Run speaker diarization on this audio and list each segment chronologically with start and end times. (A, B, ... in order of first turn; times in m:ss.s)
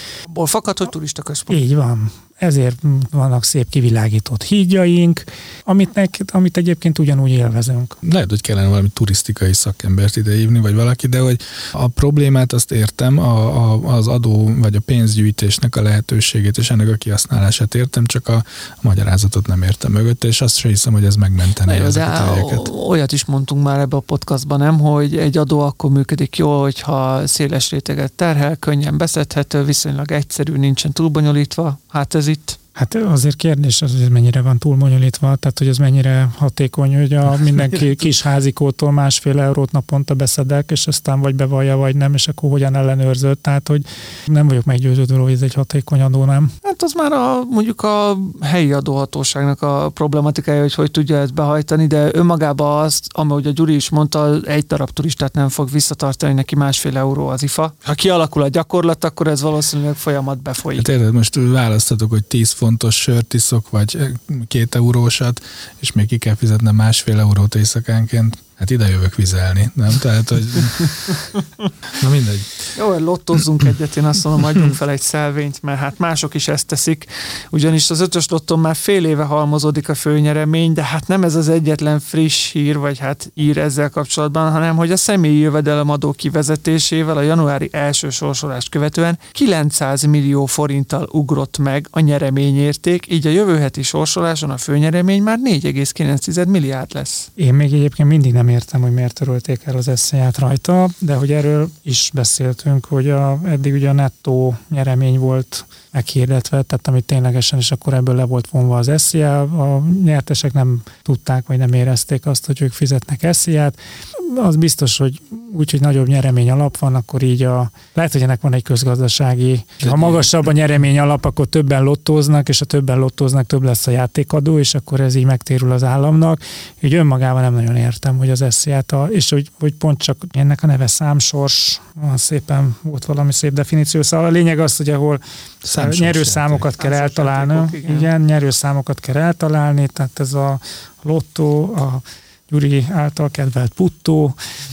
0:00.3-0:01.6 A
0:01.5-0:08.0 B
0:08.0-0:22.7 C
0:21.6-0:32.6 A
0:32.8-0:46.5 B
0:37.6-0:37.9 C
0:46.6-1:00.9 A
1:00.7-1:11.2 C
1:11.9-1:12.7 C
1:12.7-1:37.3 A
1:14.4-1:14.7 C
1:37.4-2:24.4 B
1:59.8-2:00.3 C
2:15.6-2:16.7 C
2:16.8-2:18.1 A